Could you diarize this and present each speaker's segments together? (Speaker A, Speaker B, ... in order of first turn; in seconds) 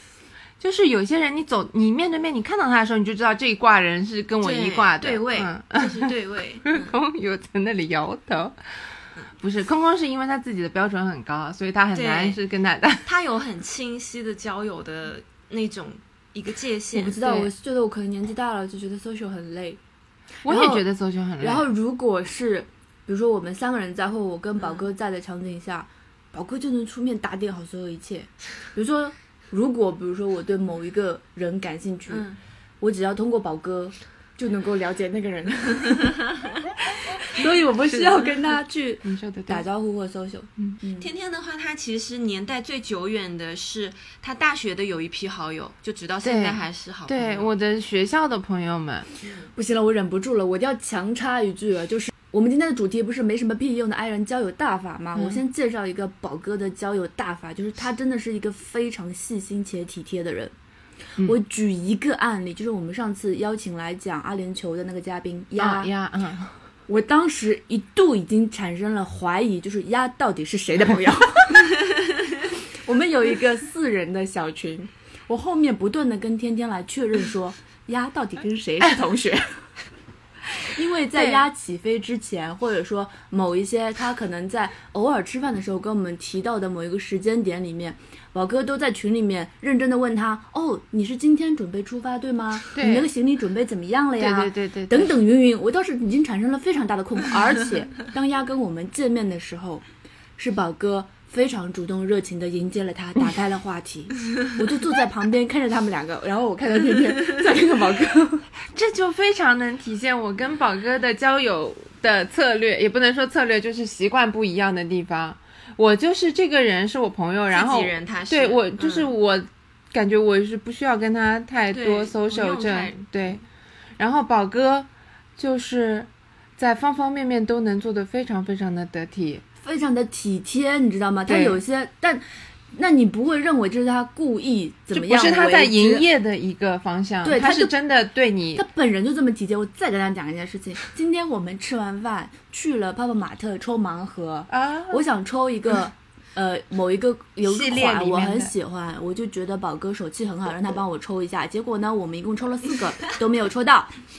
Speaker A: 0.6-6.1, 6.7-8.6, 9.4-13.1, 20.4-21.6, 37.9-38.2, 39.0-39.6, 46.2-49.0, 55.1-55.4, 65.6-66.5, 81.2-81.4, 92.7-93.1, 94.2-95.1, 108.7-123.4, 124.0-129.4, 131.3-131.6, 134.9-138.6, 144.5-145.0, 147.4-148.5
Speaker B: 4.4-6.9, 11.9-12.4, 13.0-17.4, 24.6-24.8, 32.1-32.4, 41.0-47.5, 117.5-119.1, 121.7-123.1
Speaker C: 16.9-19.8, 20.5-20.8, 21.4-32.2, 32.8-36.2, 37.2-41.1, 49.5-60.5, 61.2-65.9, 66.9-71.7, 72.8-79.7, 80.6-99.8, 100.4-108.5, 129.6-136.1, 137.2-137.7, 138.5-153.9